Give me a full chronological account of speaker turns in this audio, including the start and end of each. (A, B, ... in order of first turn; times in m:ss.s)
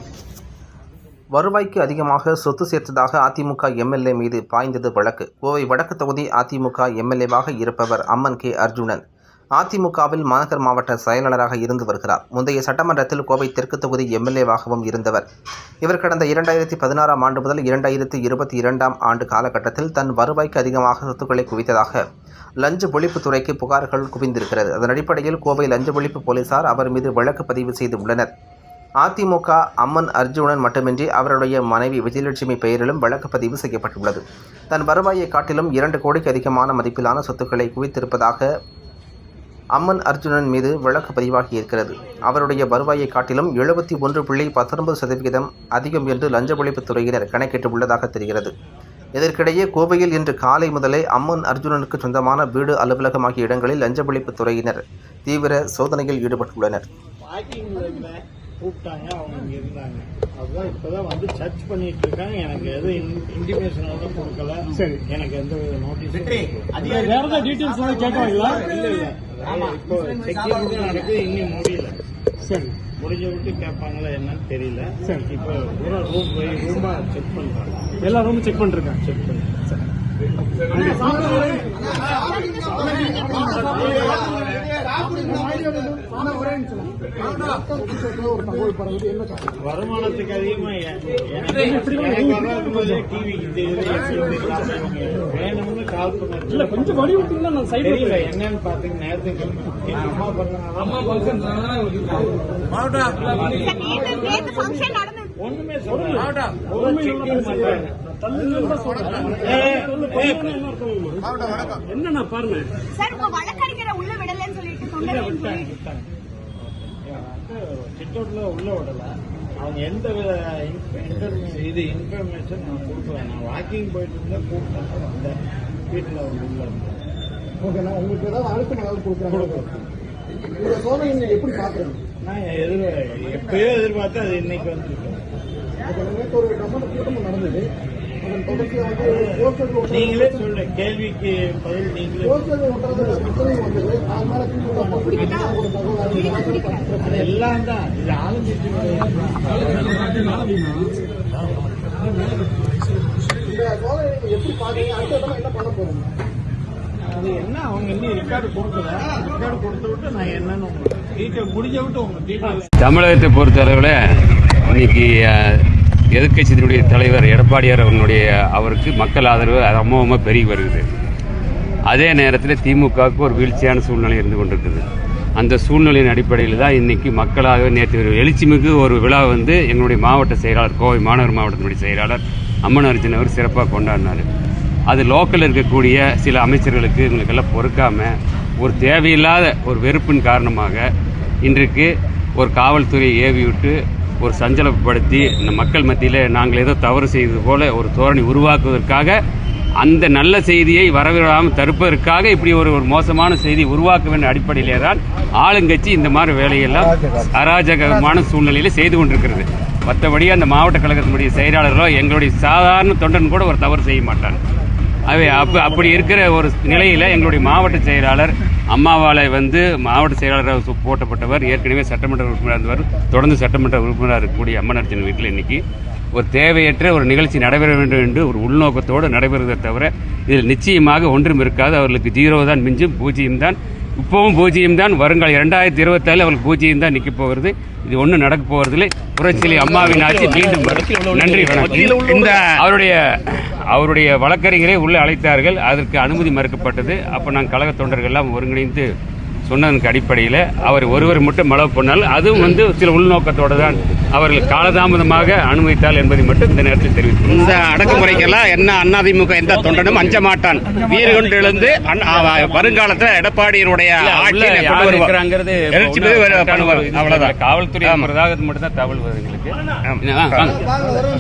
0:01.3-0:09.0 A
0:09.6-0:15.2 A
0:15.8-0:22.0 A
0:22.6-0:28.3 A
0:29.0-0:38.5 A
0:39.7-0:48.5 A
0:49.2-0:56.8 A
0:57.2-1:12.0 B
1:07.0-1:08.5 C
1:13.0-1:18.0 B
1:18.1-1:19.0 C
1:19.0-1:19.5 B
1:22.6-1:23.6 D
1:23.6-1:24.1 B
1:25.1-1:26.9 D
1:27.4-1:29.4 D
1:29.6-1:50.5 B
1:37.0-1:37.7 C
1:43.4-1:45.3 E
1:48.2-1:49.0 C
1:49.8-1:51.2 C
1:51.4-1:51.8 B
1:52.2-1:52.6 C
1:52.9-1:55.6 E
1:54.9-1:56.1 B
1:56.6-2:07.0 B
2:07.7-2:09.3 D
2:09.3-2:09.8 B
2:10.6-2:12.0 D
2:12.2-2:15.2 B
2:16.0-2:17.6 D
2:18.3-2:20.0 D
2:18.6-2:25.4 B
2:22.4-2:25.0 D
2:25.0-2:26.9 E
2:25.5-2:26.9 D
2:27.0-2:30.4 B
2:33.6-2:36.1 D
2:37.0-2:42.7 B
2:42.8-2:44.0 F
2:44.7-2:45.6 F
2:46.1-2:50.8 F
2:51.9-2:54.8 F
2:55.4-3:04.2 F
3:04.9-3:10.9 F
3:11.4-3:19.2 F
3:19.8-3:34.4 F
3:35.1-3:45.6 F
3:46.1-4:08.9 F
3:59.4-4:02.6 G
4:09.5-4:18.1 F
4:17.3-4:25.1 G
4:19.9-4:20.2 F
4:24.0-4:30.7 F
4:25.7-4:28.1 G
4:29.9-4:30.5 G